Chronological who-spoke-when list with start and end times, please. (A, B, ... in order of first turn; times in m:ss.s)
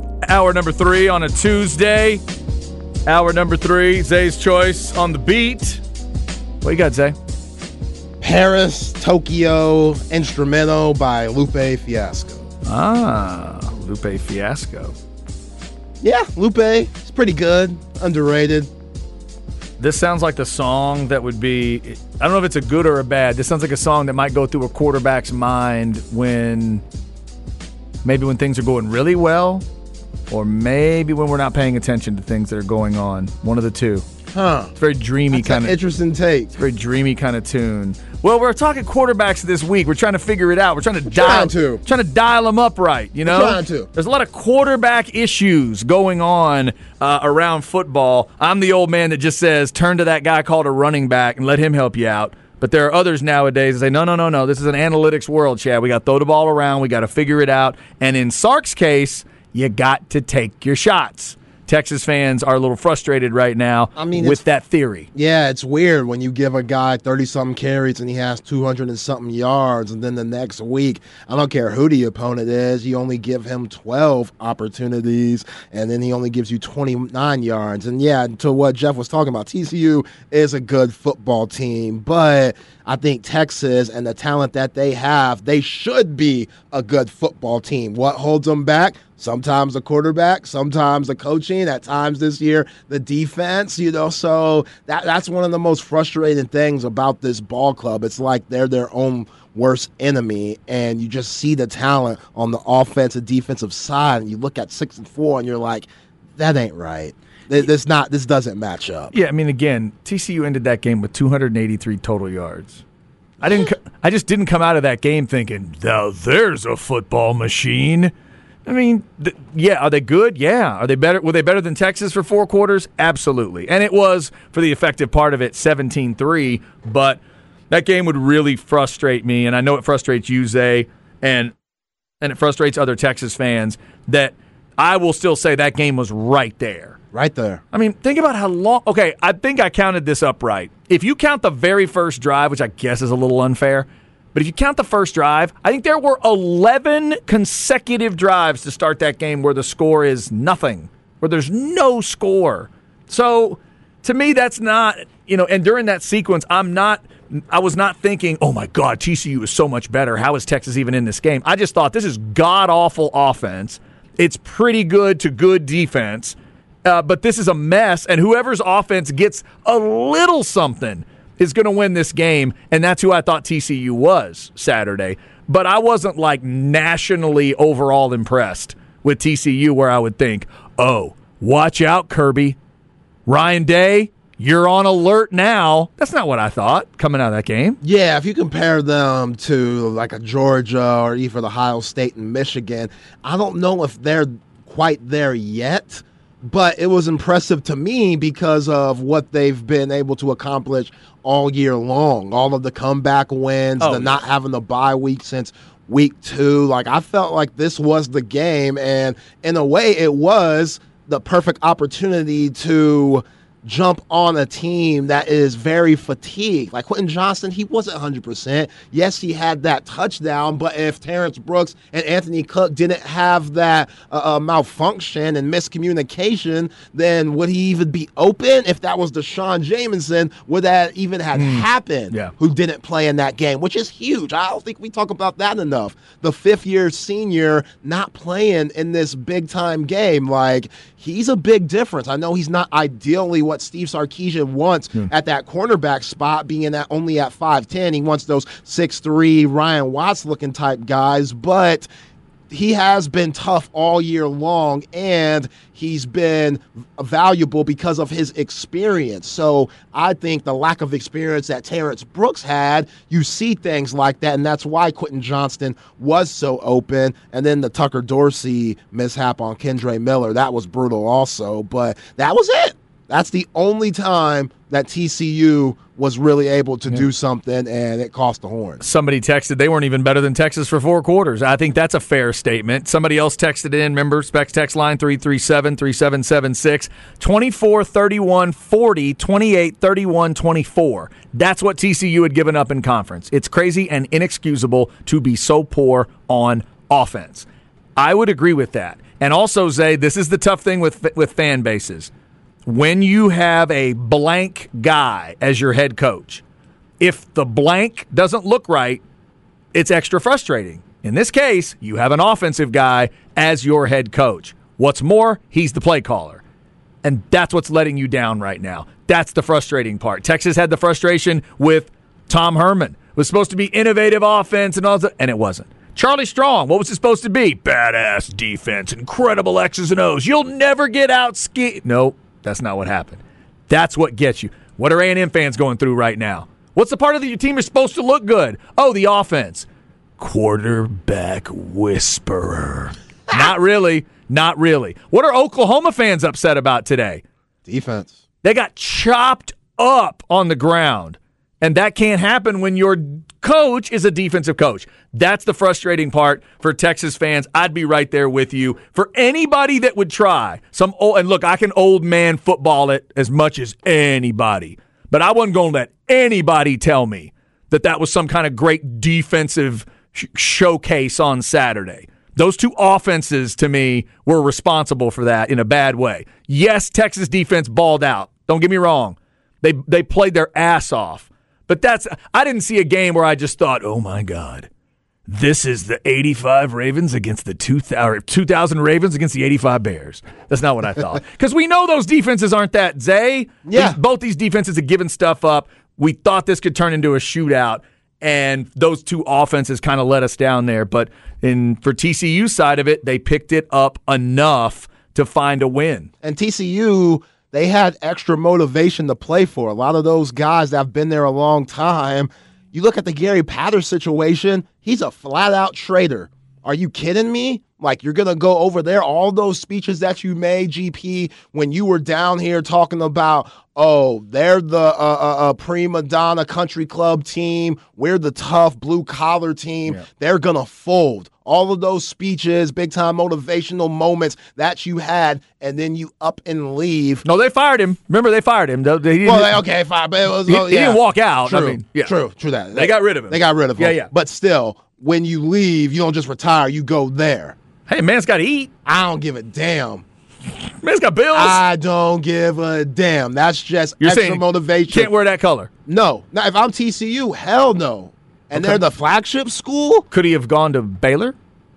0:00.2-0:02.2 A
0:03.1-0:05.8 A
0:06.6-0:07.2 A
0:08.2-0:12.5 B
0:12.7-0:15.0 A
0:16.0-0:18.7 B
0:19.8-0:26.8 A
0:28.0-0:29.6 A
0:30.3-0:34.1 A
0:34.3-0:34.7 B
0:34.8-0:35.8 A
0:35.3-0:36.6 B
0:36.6-1:05.1 A
0:41.1-0:41.8 B
0:43.3-0:43.9 B
1:04.0-1:04.4 B
1:05.2-1:49.1 B
1:49.1-1:52.8 A
1:53.4-1:58.1 A
1:58.7-2:07.2 A
2:07.7-2:11.6 A
2:12.2-2:17.0 A
2:17.1-2:17.6 B
2:17.7-3:02.6 A
3:03.3-3:07.8 A
3:07.8-4:11.9 B
3:23.8-3:24.2 A
3:51.4-3:52.3 A
4:12.5-4:38.8 B
4:38.8-5:02.1 A
5:02.6-5:06.4 A
5:07.0-5:09.0 A
5:09.7-5:16.4 A
5:17.0-5:39.7 A
5:40.2-5:47.2 A
5:47.7-5:48.2 B
5:48.4-6:24.7 A
6:25.3-6:46.1 A
6:33.7-6:34.0 B
6:46.2-7:17.2 B
7:17.2-7:19.6 A
7:19.2-7:27.6 B
7:20.5-7:22.2 A
7:22.8-7:24.1 A
7:27.9-7:28.7 A
7:28.9-7:30.0 B
7:30.6-7:31.6 A
7:31.3-7:35.1 B
7:34.0-7:35.7 A
7:35.9-7:40.1 B
7:40.1-7:41.4 A